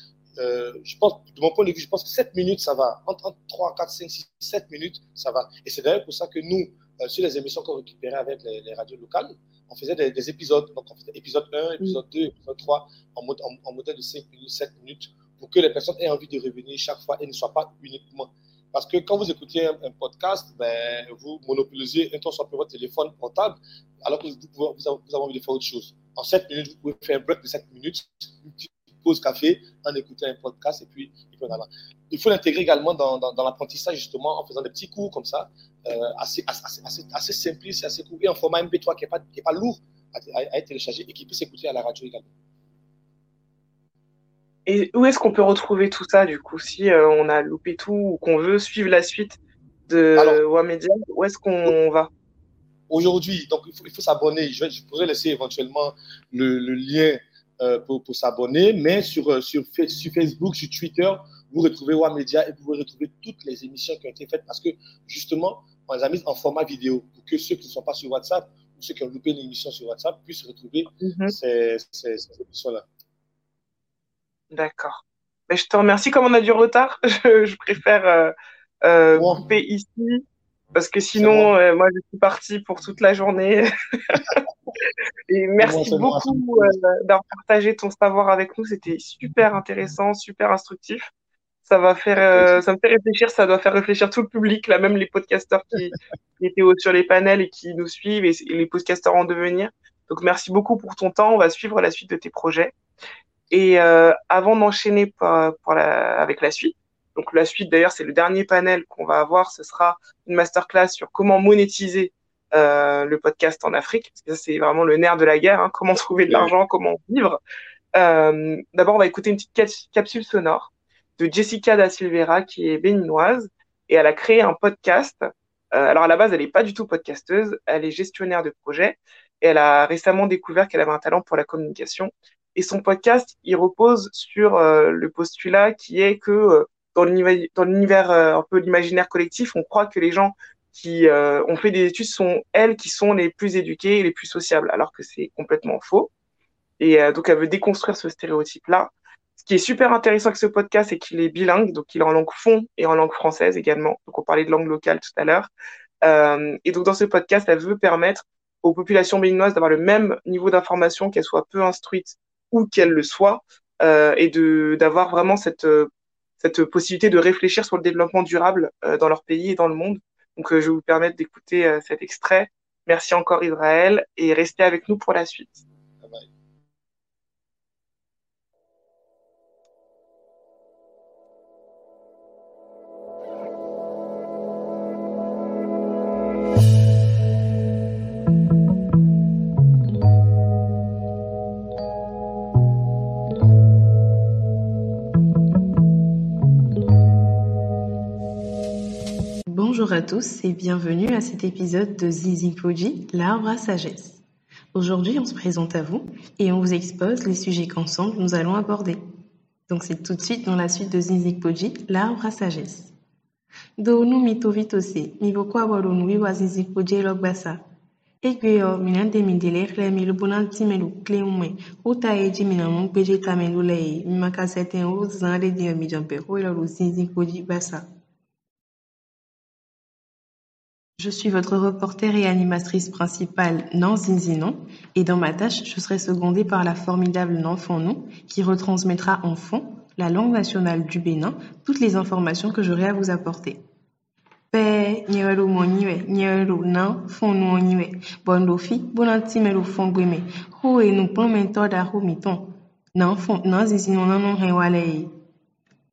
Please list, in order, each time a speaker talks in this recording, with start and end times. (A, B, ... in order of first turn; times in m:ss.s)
0:00.4-0:42.3 A
0:44.6-0:52.1 B
0:52.9-1:12.8 A
1:11.0-1:11.3 B
1:14.5-1:20.2 B
1:19.1-1:19.4 A
1:20.7-1:24.4 B
1:21.1-1:21.5 A
1:25.3-1:31.1 B
1:25.6-1:26.7 A
1:31.6-1:42.7 B
1:43.5-1:57.4 B
1:57.9-2:26.1 B
2:26.8-2:35.5 B
2:36.0-2:55.6 B
2:56.0-2:56.3 A
3:19.5-3:24.2 C
3:24.7-3:29.0 C
3:29.7-3:32.9 C
3:33.8-3:37.6 C
3:38.2-3:47.8 C
3:51.0-4:03.6 C
4:04.5-4:15.1 C